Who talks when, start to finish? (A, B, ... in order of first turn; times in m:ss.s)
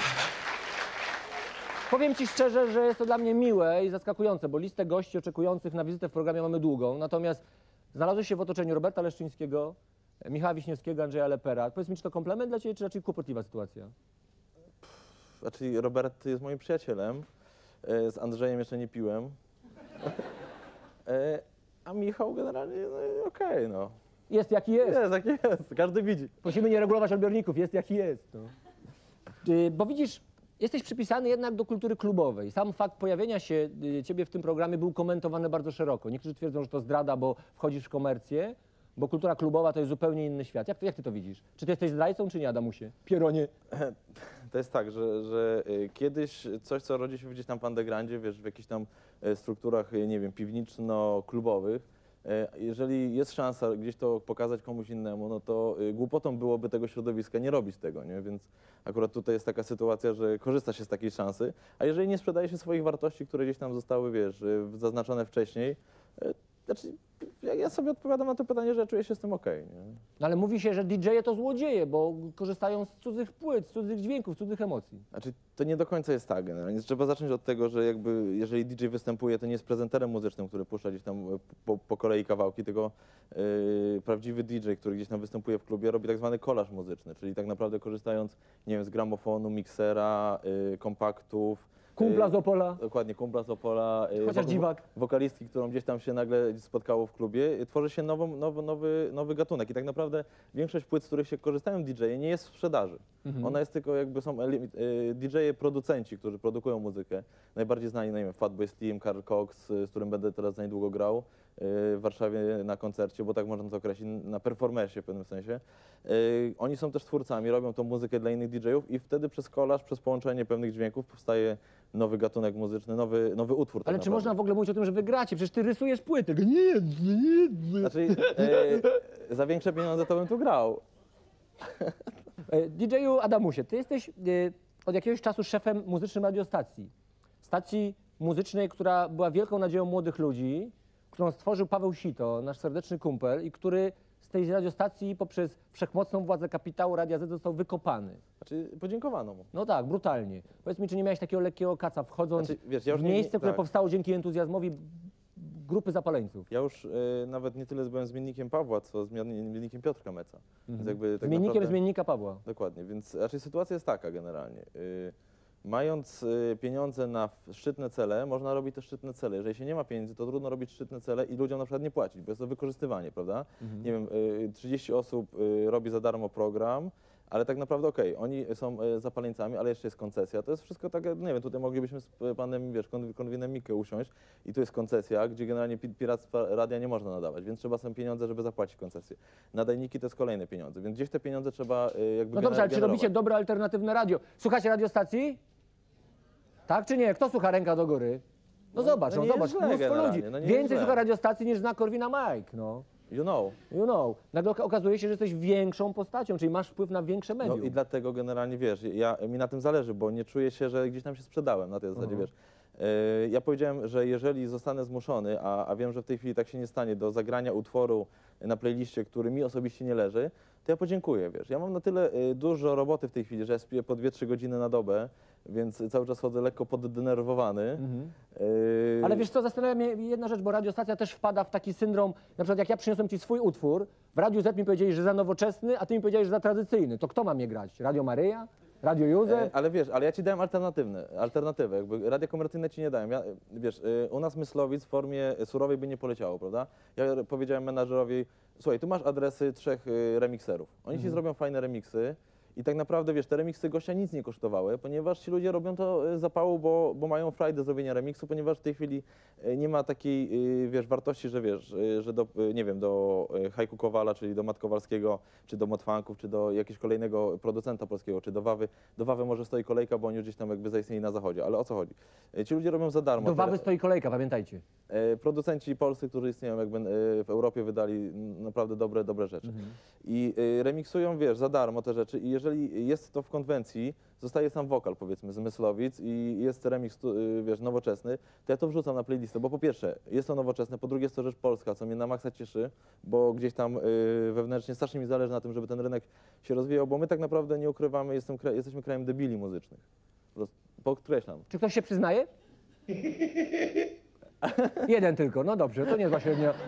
0:01.9-0:07.4 A
0:07.9-0:13.9 A
0:14.8-0:17.3 B
0:17.8-0:19.4 B
0:21.1-0:23.9 B
0:24.3-0:25.0 A
0:24.8-0:26.4 B
0:26.4-0:28.5 A
0:29.4-0:43.5 A
0:43.7-0:44.0 B
0:44.5-1:10.0 B
1:10.2-1:15.0 A
1:15.1-2:04.3 B
1:32.0-1:32.8 A
1:34.2-1:34.8 A
1:43.2-1:43.6 A
2:03.8-2:08.8 A
2:07.8-2:10.8 B
2:12.5-2:16.9 A
2:17.4-2:28.2 A
2:28.4-2:29.5 B
2:29.5-2:36.5 A
2:32.4-2:33.6 B
2:36.5-2:41.8 B
2:40.7-2:42.4 A
2:42.4-3:13.1 B
2:53.6-2:53.9 A
3:12.3-3:15.4 A
3:16.7-3:18.2 A
3:18.7-3:22.9 A
3:18.8-3:21.0 B
3:23.1-3:23.6 B
3:23.7-3:27.8 A
3:27.4-3:49.2 B
3:32.0-3:32.3 A
3:47.8-3:48.1 A
3:49.0-3:59.5 A
3:59.3-4:33.7 B
4:33.2-4:34.6 A
4:34.9-4:59.8 B
5:00.4-5:01.5 B
5:01.5-5:02.3 A
5:04.4-5:04.8 B
5:04.8-5:06.6 A